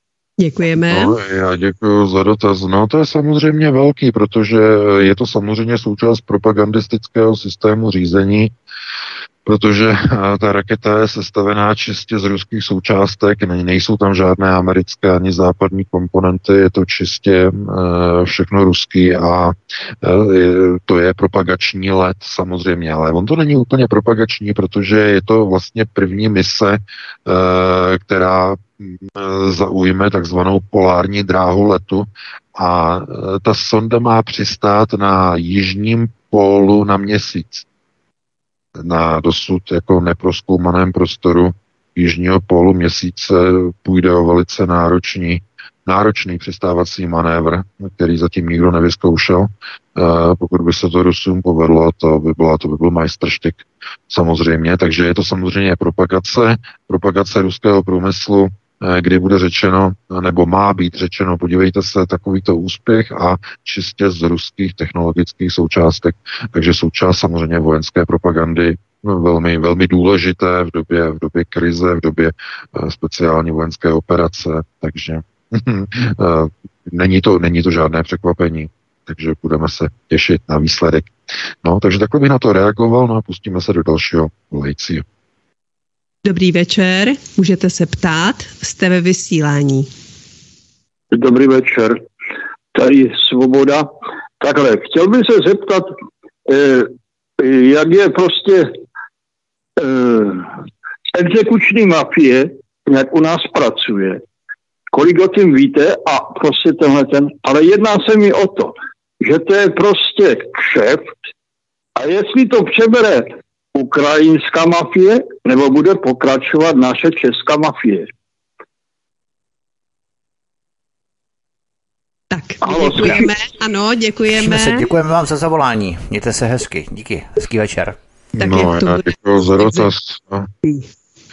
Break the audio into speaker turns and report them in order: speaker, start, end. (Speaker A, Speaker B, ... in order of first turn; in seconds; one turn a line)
Speaker A: 0.4-1.1
Speaker B: 0.9-8.5
Speaker B: 9.4-37.7
Speaker B: 38.8-85.0
Speaker A: 86.2-89.9
Speaker C: 91.1-92.0
Speaker C: 92.7-96.0
Speaker C: 96.5-98.8
Speaker C: 99.8-100.5
Speaker C: 101.1-104.2
Speaker C: 104.9-111.2
Speaker C: 112.0-118.1
Speaker A: 122.3-124.9
Speaker C: 122.6-123.3
Speaker D: 124.3-128.0
Speaker B: 128.4-130.5
Speaker A: 128.4-129.9